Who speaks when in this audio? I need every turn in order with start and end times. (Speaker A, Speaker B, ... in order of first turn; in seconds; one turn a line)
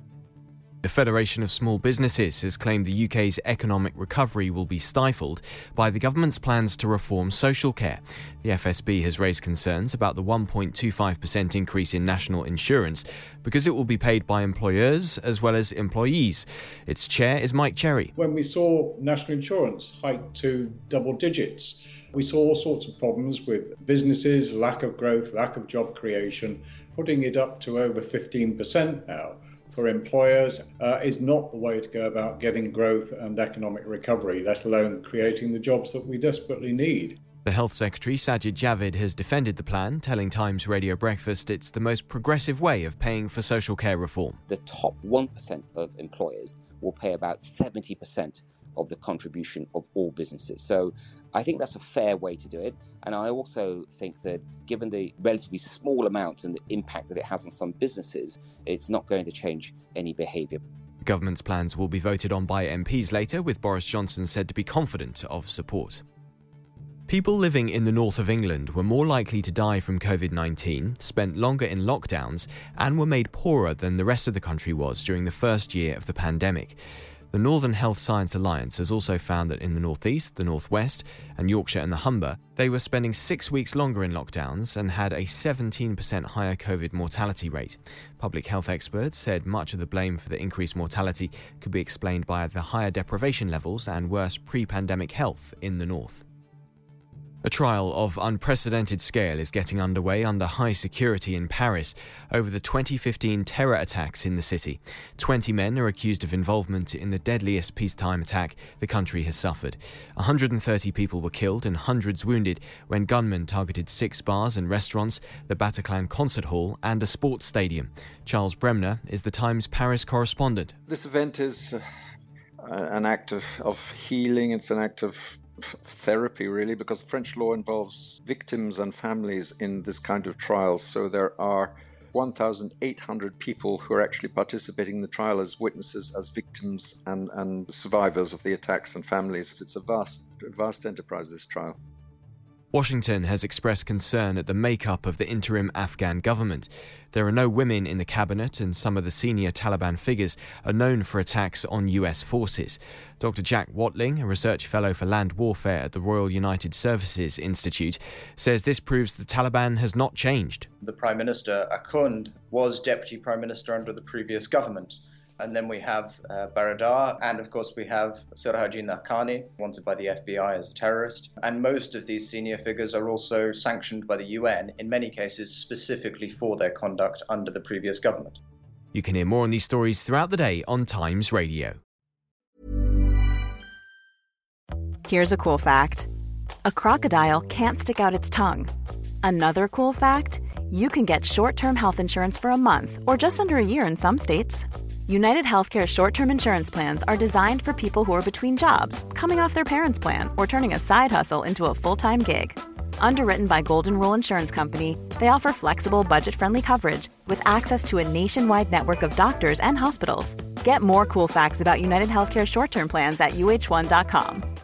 Speaker A: 0.8-18.1
Speaker B: 18.2-37.2
Speaker A: 37.5-44.4
Speaker C: 44.5-60.6
Speaker A: 61.0-66.0
Speaker A: 67.1-76.8
Speaker A: 77.3-96.2
Speaker A: 97.4-120.8
Speaker D: 120.9-121.8
Speaker D: 122.6-141.8
Speaker A: 142.7-160.7
Speaker E: 160.8-178.4
Speaker A: 178.9-181.8
Speaker F: 185.1-186.1
Speaker F: 186.7-188.7
Speaker F: 189.2-214.4